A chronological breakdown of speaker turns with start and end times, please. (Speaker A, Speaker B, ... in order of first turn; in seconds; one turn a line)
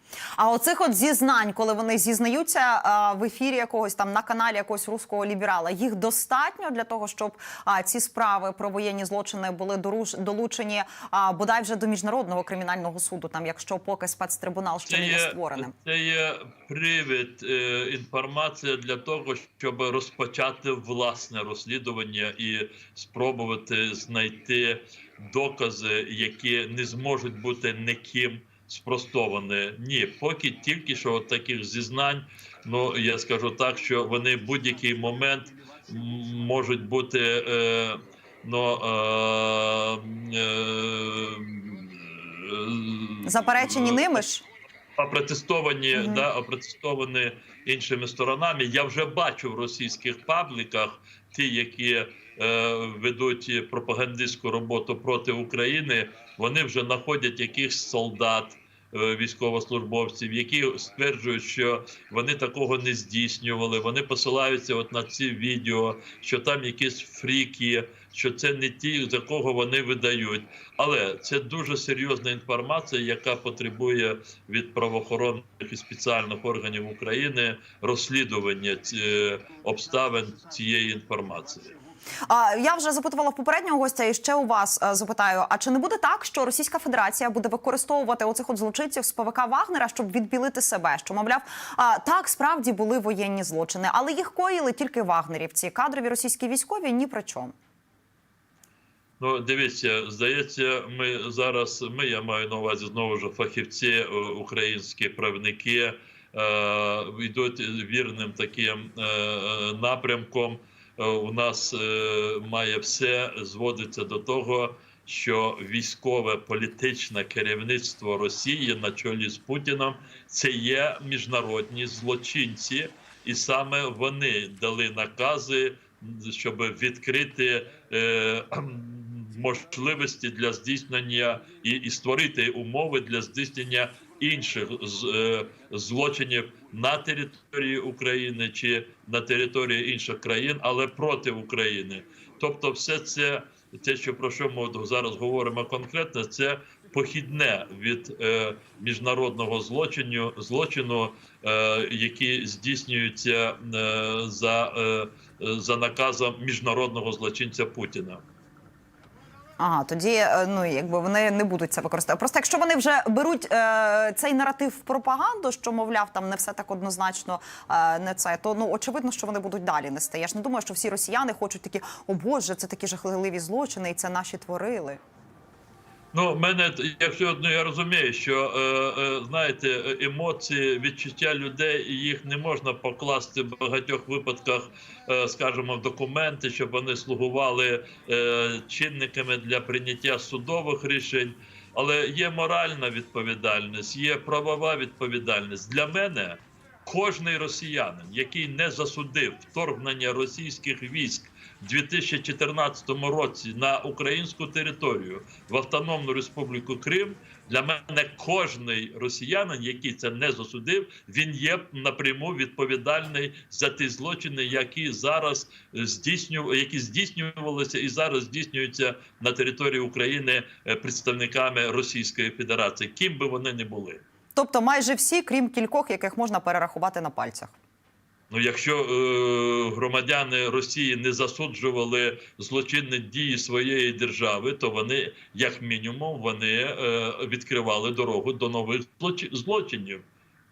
Speaker A: 0.4-15.7
Speaker B: 14.9-44.2
Speaker A: 43.2-44.4
Speaker B: 45.0-81.7
Speaker A: 45.9-46.2
Speaker A: 82.2-97.5
Speaker B: 99.2-158.2
Speaker A: 159.6-175.0
Speaker B: 176.1-224.0
Speaker A: 224.3-227.5
Speaker B: 228.3-240.0